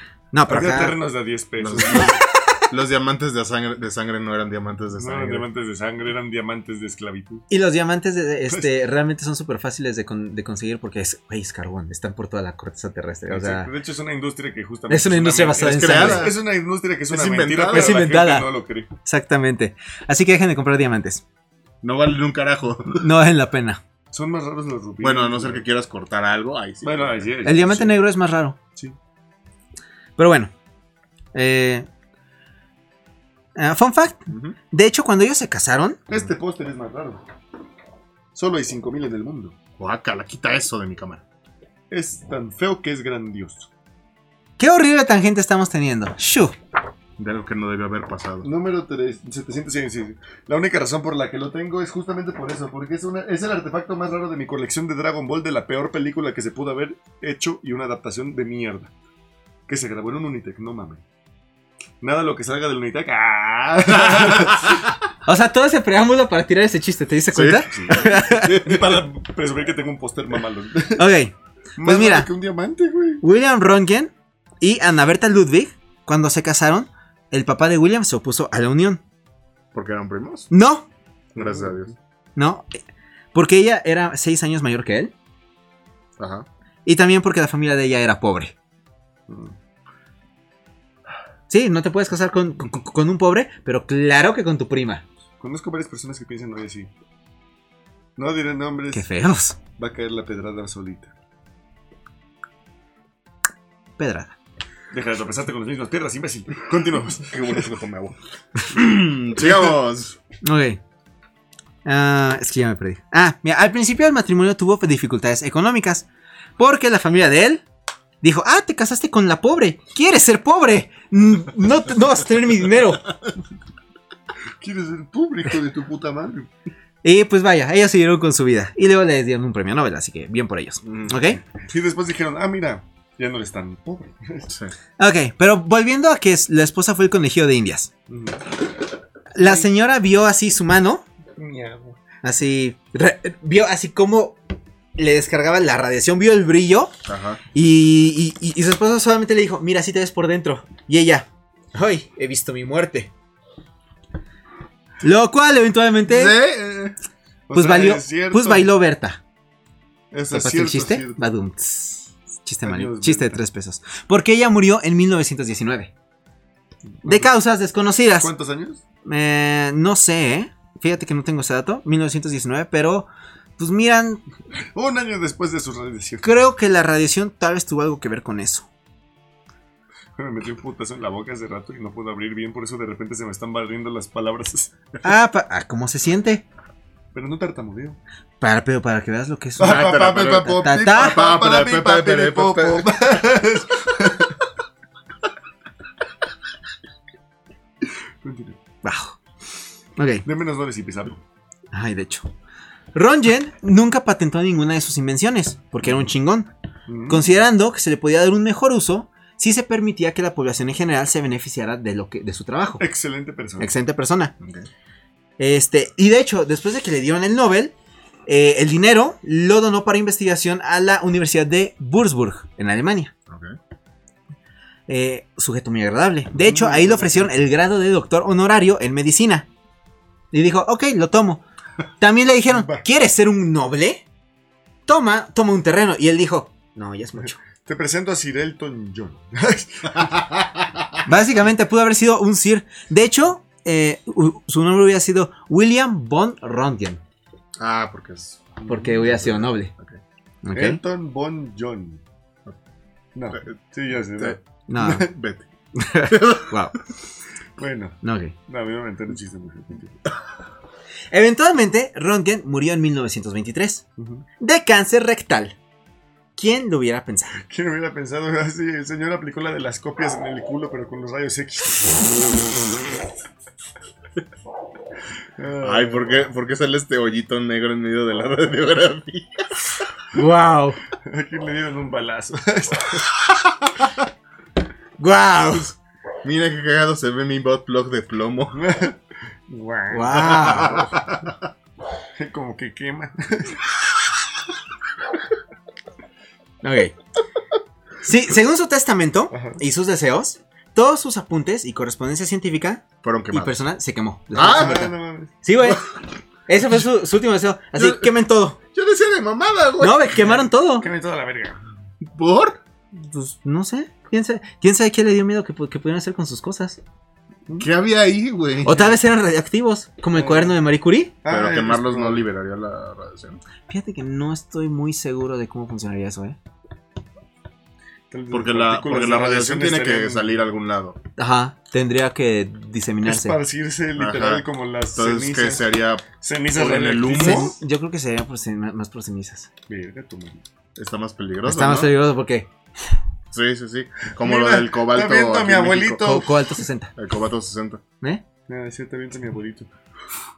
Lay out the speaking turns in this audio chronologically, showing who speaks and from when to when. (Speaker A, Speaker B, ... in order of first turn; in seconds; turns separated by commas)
Speaker A: 0.3-1.0, Speaker B: 0.5-2.2, Speaker C: 1.6-5.5, Speaker B: 5.0-7.5, Speaker A: 7.5-13.7, Speaker B: 13.3-18.9, Speaker A: 14.9-16.3, Speaker C: 15.6-16.4, Speaker C: 17.1-18.1, Speaker A: 17.7-18.5, Speaker A: 19.1-21.2, Speaker C: 21.8-23.0, Speaker A: 23.0-23.8, Speaker B: 24.1-25.6, Speaker C: 25.0-27.3, Speaker B: 26.8-28.0, Speaker A: 27.4-28.6, Speaker A: 30.2-30.5, Speaker A: 31.3-31.9, Speaker A: 33.6-36.0, Speaker C: 34.3-34.6, Speaker B: 36.1-37.2, Speaker B: 38.4-39.5, Speaker C: 39.8-41.2, Speaker B: 41.9-43.7, Speaker A: 44.6-46.5, Speaker C: 47.2-48.5, Speaker B: 48.4-58.9, Speaker B: 59.7-61.0, Speaker B: 62.0-64.8, Speaker C: 64.0-64.8, Speaker A: 65.3-68.6, Speaker C: 67.3-68.7, Speaker B: 67.7-71.1, Speaker A: 71.0-72.3, Speaker B: 71.8-73.2, Speaker A: 73.2-79.0, Speaker C: 79.7-80.5, Speaker A: 80.5-80.9, Speaker C: 81.3-81.9, Speaker B: 81.4-81.9, Speaker A: 82.4-82.8, Speaker A: 83.3-85.1, Speaker C: 86.2-86.5, Speaker A: 86.8-88.5, Speaker B: 89.3-89.5, Speaker A: 91.5-95.0, Speaker B: 95.4-96.9, Speaker B: 98.2-99.1, Speaker A: 98.9-99.6, Speaker B: 99.8-101.1, Speaker A: 104.0-104.3, Speaker B: 104.9-107.7, Speaker C: 107.2-108.2, Speaker C: 108.7-110.2, Speaker A: 110.4-110.8, Speaker A: 111.8-116.1, Speaker A: 116.6-117.6, Speaker A: 118.2-123.1, Speaker B: 124.6-126.5, Speaker A: 127.0-131.4, Speaker C: 130.8-131.2, Speaker B: 131.6-134.5, Speaker C: 134.5-134.7, Speaker A: 135.0-137.9, Speaker B: 138.1-138.4, Speaker A: 139.3-141.0, Speaker B: 139.4-139.7, Speaker B: 141.4-142.0, Speaker A: 142.2-144.4, Speaker A: 145.0-146.9, Speaker C: 147.1-147.4, Speaker A: 147.5-153.1, Speaker A: 155.0-156.4, Speaker C: 156.1-156.9, Speaker B: 157.5-158.7, Speaker A: 157.5-159.2, Speaker B: 160.1-161.2, Speaker A: 160.3-165.9, Speaker B: 162.6-163.4, Speaker B: 167.0-167.3, Speaker A: 167.0-168.3, Speaker B: 168.2-168.8, Speaker A: 169.1-174.2, Speaker B: 174.7-176.3, Speaker A: 176.2-178.7, Speaker B: 180.2-184.8, Speaker A: 185.0-186.4, Speaker B: 187.1-188.0, Speaker A: 188.4-191.2, Speaker B: 189.6-194.4, Speaker C: 189.6-193.2, Speaker B: 198.2-198.6, Speaker A: 198.8-199.2, Speaker A: 200.0-200.2, Speaker B: 200.2-201.2, Speaker A: 201.7-202.3, Speaker A: 202.9-206.5, Speaker B: 206.9-207.3, Speaker A: 207.1-212.8, Speaker B: 212.8-213.7, Speaker A: 213.6-214.3, Speaker C: 214.4-214.7, Speaker A: 215.4-217.7, Speaker A: 218.3-223.1, Speaker C: 223.3-223.6, Speaker A: 224.9-229.5, Speaker B: 226.4-227.3, Speaker A: 230.3-231.4, Speaker A: 232.0-234.0, Speaker B: 232.5-232.8, Speaker A: 234.9-237.4, Speaker B: 237.6-240.4, Speaker A: 241.1-247.0, Speaker C: 247.6-248.6, Speaker B: 248.6-249.2, Speaker A: 248.7-249.7, Speaker C: 249.2-250.0, Speaker A: 250.4-250.8, Speaker B: 250.5-252.0, Speaker B: 253.2-255.1, Speaker A: 254.7-255.1, Speaker C: 255.0-255.4, Speaker A: 255.8-256.8, Speaker C: 256.0-256.5, Speaker B: 257.6-260.0, Speaker A: 258.0-258.3, Speaker A: 261.1-263.8, Speaker B: 264.0-264.2, Speaker A: 264.4-265.6, Speaker A: 266.4-267.4, Speaker B: 267.4-272.9, Speaker B: 275.4-276.3, Speaker C: 275.6-279.6, Speaker A: 280.1-280.8, Speaker B: 281.0-283.1, Speaker A: 285.0-285.8, Speaker C: 286.2-288.6, Speaker B: 288.5-290.9, Speaker A: 289.9-290.9, Speaker C: 290.1-291.4, Speaker B: 292.2-293.6, Speaker A: 296.6-296.9, Speaker A: 298.0-305.9, Speaker B: 299.3-299.6, Speaker C: 303.0-303.6, Speaker C: 304.3-304.9, Speaker B: 304.4-305.3, Speaker C: 305.6-306.0, Speaker A: 306.5-308.6, Speaker C: 307.8-308.1, Speaker C: 308.7-310.1, Speaker A: 309.8-310.9, Speaker B: 310.2-311.6, Speaker C: 312.1-312.6, Speaker A: 312.9-316.8, Speaker C: 317.6-319.0, Speaker A: 318.6-321.1, Speaker B: 320.1-320.6, Speaker B: 321.2-322.2, Speaker C: 321.3-323.4, Speaker A: 323.7-326.4, Speaker B: 328.1-330.4, Speaker C: 328.3-331.0, Speaker A: 331.2-333.4, Speaker B: 333.1-335.7, Speaker C: 334.0-337.5, Speaker B: 336.2-337.6, Speaker A: 337.1-339.5, Speaker B: 339.7-340.4, Speaker C: 340.8-341.9, Speaker A: 341.4-342.5, Speaker C: 343.3-346.2, Speaker B: 344.2-346.4, Speaker A: 346.0-346.9, Speaker C: 347.0-347.8, Speaker B: 348.5-349.7